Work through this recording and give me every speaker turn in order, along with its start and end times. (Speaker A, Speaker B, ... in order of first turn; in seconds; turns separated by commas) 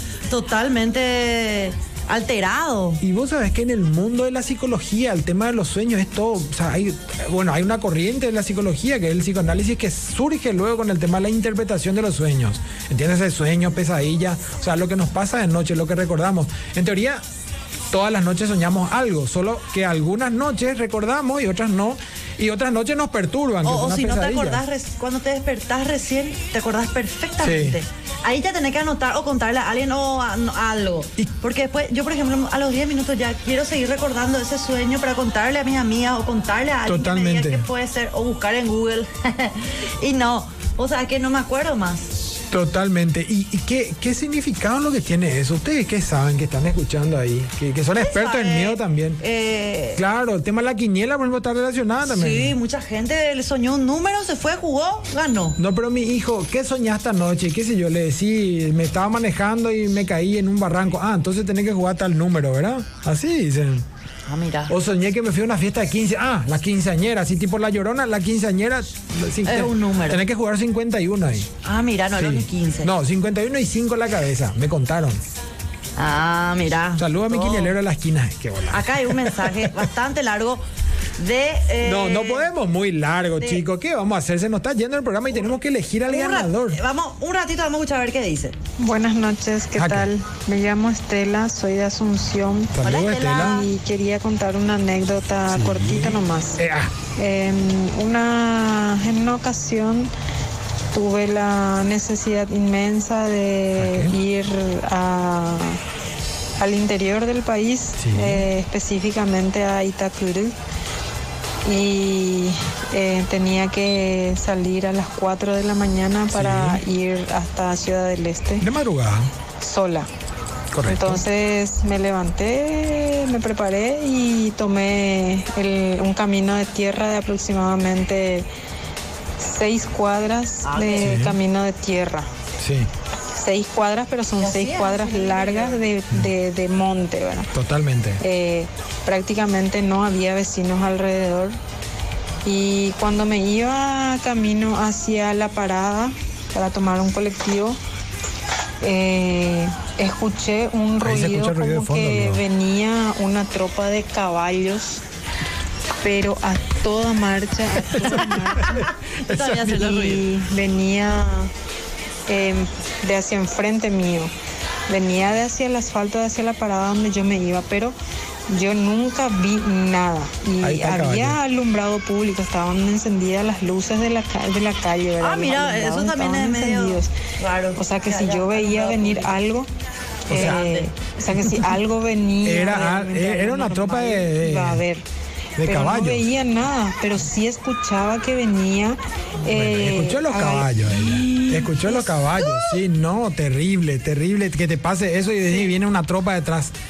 Speaker A: 0.3-3.0, Speaker B: 3.0-17.2, Speaker B: 17.9-24.6, Speaker A: 23.6-42.1, Speaker B: 27.4-27.8, Speaker B: 36.9-37.6, Speaker B: 42.5-49.2, Speaker A: 48.0-50.0, Speaker B: 49.9-52.5, Speaker A: 52.0-55.6, Speaker B: 55.6-63.8, Speaker A: 64.3-64.7, Speaker B: 64.7-71.5, Speaker A: 69.4-70.2, Speaker A: 71.6-72.9, Speaker B: 72.1-75.2, Speaker A: 76.0-77.7, Speaker B: 77.0-79.9, Speaker A: 78.7-80.6, Speaker A: 81.2-82.5, Speaker B: 81.8-86.8, Speaker A: 83.4-83.6, Speaker A: 86.0-88.5, Speaker C: 88.8-92.8, Speaker B: 89.8-90.1, Speaker B: 92.7-93.6, Speaker A: 92.8-93.7, Speaker C: 93.3-96.6, Speaker B: 95.5-96.9, Speaker C: 97.2-100.1, Speaker C: 100.9-105.8, Speaker B: 103.8-104.2, Speaker C: 106.6-110.5, Speaker B: 108.0-108.5, Speaker C: 111.6-118.7, Speaker B: 116.3-116.8, Speaker B: 118.6-119.3, Speaker C: 119.6-120.1, Speaker B: 120.7-121.2, Speaker C: 120.8-128.5, Speaker C: 129.4-132.3, Speaker A: 130.6-131.2, Speaker B: 131.0-131.4, Speaker B: 132.6-132.9, Speaker C: 133.3-137.5, Speaker A: 134.4-135.8, Speaker B: 137.5-138.2, Speaker C: 138.2-141.6, Speaker C: 142.4-147.8, Speaker C: 148.8-155.0, Speaker B: 151.0-152.4, Speaker C: 156.0-158.9, Speaker B: 157.9-159.8, Speaker A: 158.6-160.3, Speaker C: 159.6-161.5, Speaker C: 162.3-164.3, Speaker C: 164.9-167.9, Speaker C: 168.5-177.1, Speaker B: 170.6-171.4, Speaker A: 175.2-179.4, Speaker C: 177.7-179.7, Speaker A: 180.3-180.9, Speaker C: 180.3-185.1, Speaker B: 180.3-180.6, Speaker B: 182.4-184.8, Speaker B: 185.6-186.3, Speaker C: 185.6-190.7, Speaker B: 189.5-196.7, Speaker A: 190.9-192.8